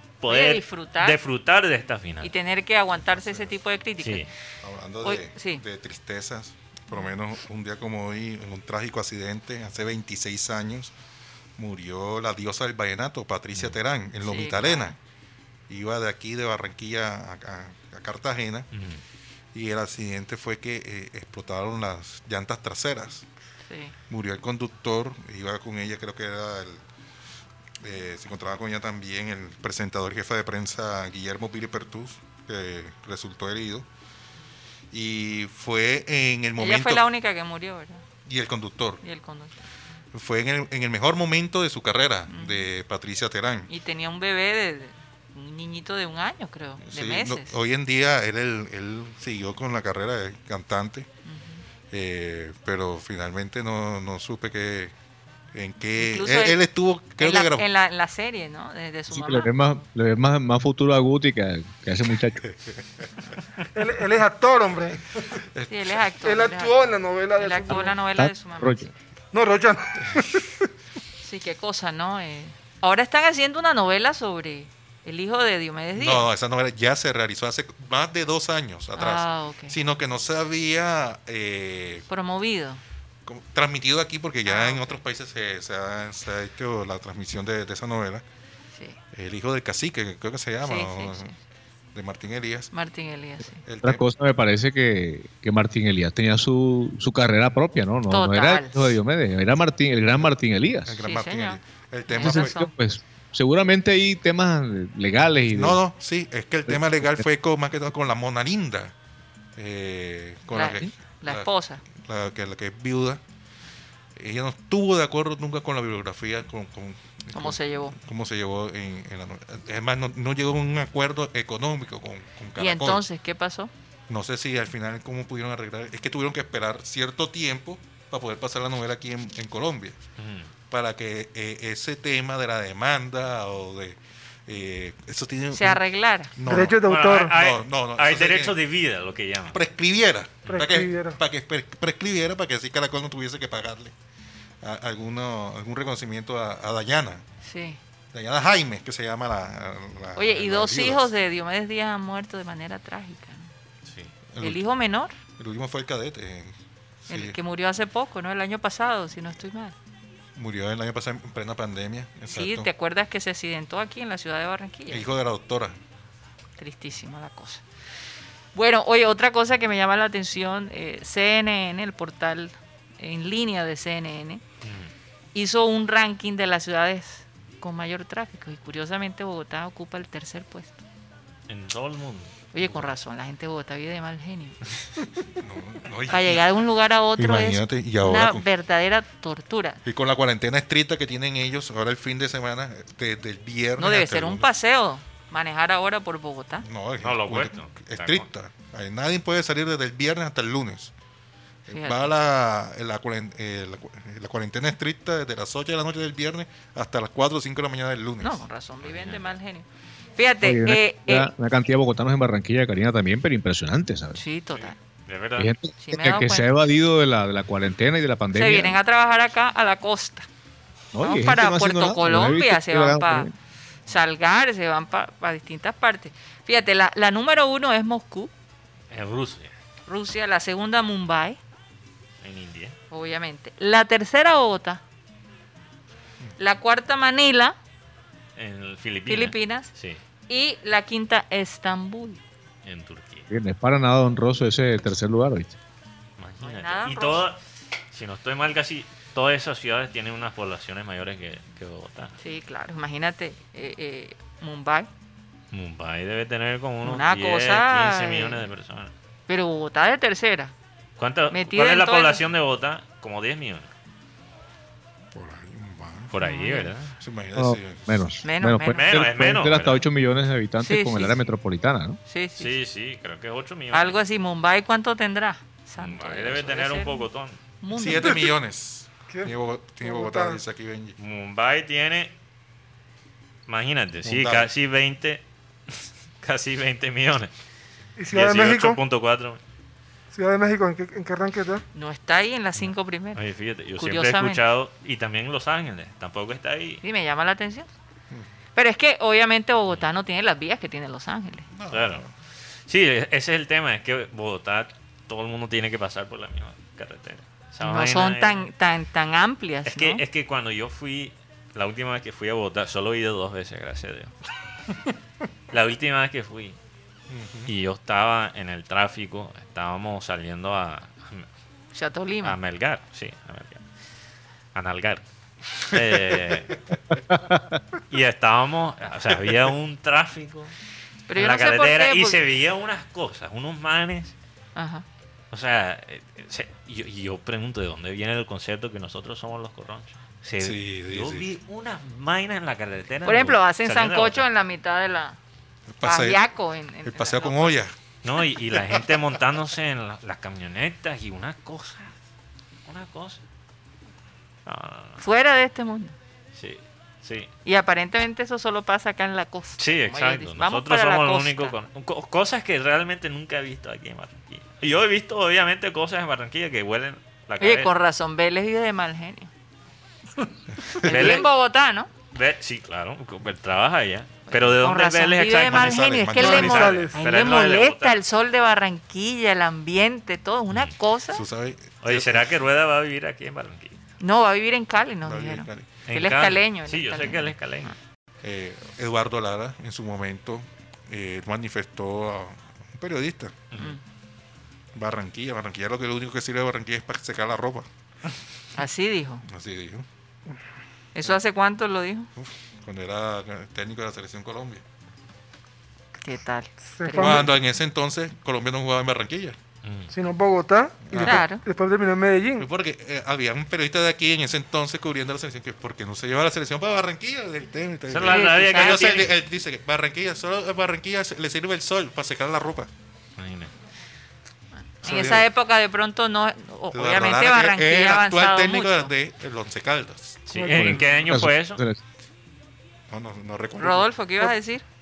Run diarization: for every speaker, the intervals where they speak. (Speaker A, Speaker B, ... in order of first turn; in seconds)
Speaker A: 0.2-2.3, 4.0-4.3, 18.7-19.0, 130.2-130.5, 136.8-139.6, 174.6-174.9, 181.5-182.9, 197.0-198.3, 208.8-209.3, 215.1-215.5, 228.9-229.5, 232.2-232.8, 238.4-240.0, 242.7-243.3, 246.2-247.4, 247.9-252.2, 255.5-258.9, 261.0-263.7, 266.1-266.9, 268.7-269.8, 272.4-274.0, 275.8-277.4, 281.0-282.1, 283.5-287.3, 288.1-289.4, 293.1-296.8, 301.7-302.1, 302.7-308.5, 309.7-314.1, 315.5-316.6, 317.5-321.3, 322.2-323.6, 324.6-325.0, 325.6-326.6, 327.9-330.5, 331.2-334.1, 335.3-344.2, 348.0-351.9, 352.7-353.2, 354.5-355.0, 356.4-357.3, 359.6-367.7, 370.8-371.3, 372.1-377.9, 381.8-383.8, 385.9-387.7, 393.5-393.8, 409.6-409.9, 417.9-419.1, 423.2-423.5, 430.3-431.6
Speaker B: 0.3-1.2, 2.2-4.3, 5.0-5.6, 14.2-14.9, 23.7-23.9, 36.6-38.0, 39.0-39.5, 42.3-42.7, 43.7-47.6, 51.3-51.6, 56.0-56.6, 57.2-59.8, 65.7-68.9, 71.2-76.3, 79.0-79.8, 82.1-82.8, 84.5-85.0, 88.7-89.0, 90.6-91.3, 92.7-93.6, 98.1-99.0, 101.0-102.7, 110.5-111.8, 117.3-118.0, 122.6-123.7, 135.5-136.3, 147.4-147.8, 150.2-153.5, 154.4-155.1, 157.1-159.8, 162.3-165.1, 166.6-167.6, 168.5-174.4, 175.3-180.8, 182.5-184.6, 186.1-189.8, 193.8-196.7, 201.7-202.1, 208.2-209.7, 210.2-211.3, 214.2-214.8, 215.8-216.5, 218.3-220.3, 221.0-223.3, 223.9-228.3, 229.9-231.4, 232.9-234.8, 236.4-237.6, 239.1-239.7, 240.3-242.2, 246.4-247.3, 252.2-254.9, 256.8-258.4, 259.3-260.5, 261.3-262.2, 266.2-266.7, 268.2-269.1, 270.6-271.3, 272.1-272.5, 273.7-277.0, 277.6-278.2, 291.8-293.2, 293.8-294.4, 296.8-297.7, 298.6-301.5, 307.6-310.0, 321.7-322.4, 331.1-332.2, 334.6-334.9, 343.1-345.2, 345.8-347.6, 355.0-355.9, 357.4-361.6, 367.4-369.3, 370.8-371.9, 374.3-381.2, 384.0-387.7, 398.6-399.2, 400.9-402.1, 406.0-407.3, 411.0-411.4, 418.1-419.0, 424.8-428.9, 433.6-434.6
Speaker C: 3.1-3.5, 4.6-10.9, 11.6-14.9, 15.7-18.7, 19.5-23.3, 24.1-26.8, 27.8-33.9, 34.9-37.0, 38.3-39.0, 40.1-43.7, 46.8-51.1, 51.9-54.9, 55.5-57.7, 65.5-65.9, 75.9-82.1, 83.3-88.2, 89.1-91.3, 91.9-92.7, 93.7-94.0, 100.9-102.5, 105.5-108.9, 109.6-113.2, 114.2-123.0, 124.1-130.0, 130.7-135.8, 136.4-138.6, 139.5-143.9, 144.6-147.2, 148.1-151.1, 154.3-154.6, 155.4-156.5, 157.1-157.4, 160.4-162.7, 164.9-165.8, 185.4-186.5, 187.2-188.4, 189.8-194.5, 196.6-200.9, 201.7-208.4, 265.1-266.1, 267.0-268.1, 277.7-280.9, 284.1-284.5, 301.5-302.1, 317.1-317.5, 325.7-326.4, 340.4-341.3, 345.7-346.2, 346.9-347.7, 375.4-376.9, 381.1-382.3, 385.0-385.7, 388.2-393.4, 394.8-397.7, 399.3-399.9, 402.2-404.6, 407.0-409.4, 410.9-411.3, 412.4-422.7, 424.8-425.3, 426.7-430.2, 432.9-433.9
Speaker D: 59.1-62.4, 68.2-68.9, 93.8-101.0, 102.2-105.8, 106.7-107.2, 210.4-214.2, 215.4-218.8, 220.9-223.3, 243.3-245.6, 267.4-272.0, 327.1-327.6, 430.4-431.8
Speaker E: 63.8-65.0, 66.2-67.9, 69.3-70.4, 136.5-137.3, 140.5-141.2, 279.8-280.4, 288.0-288.8, 290.1-291.6, 376.2-377.0, 406.8-407.3, 409.9-412.5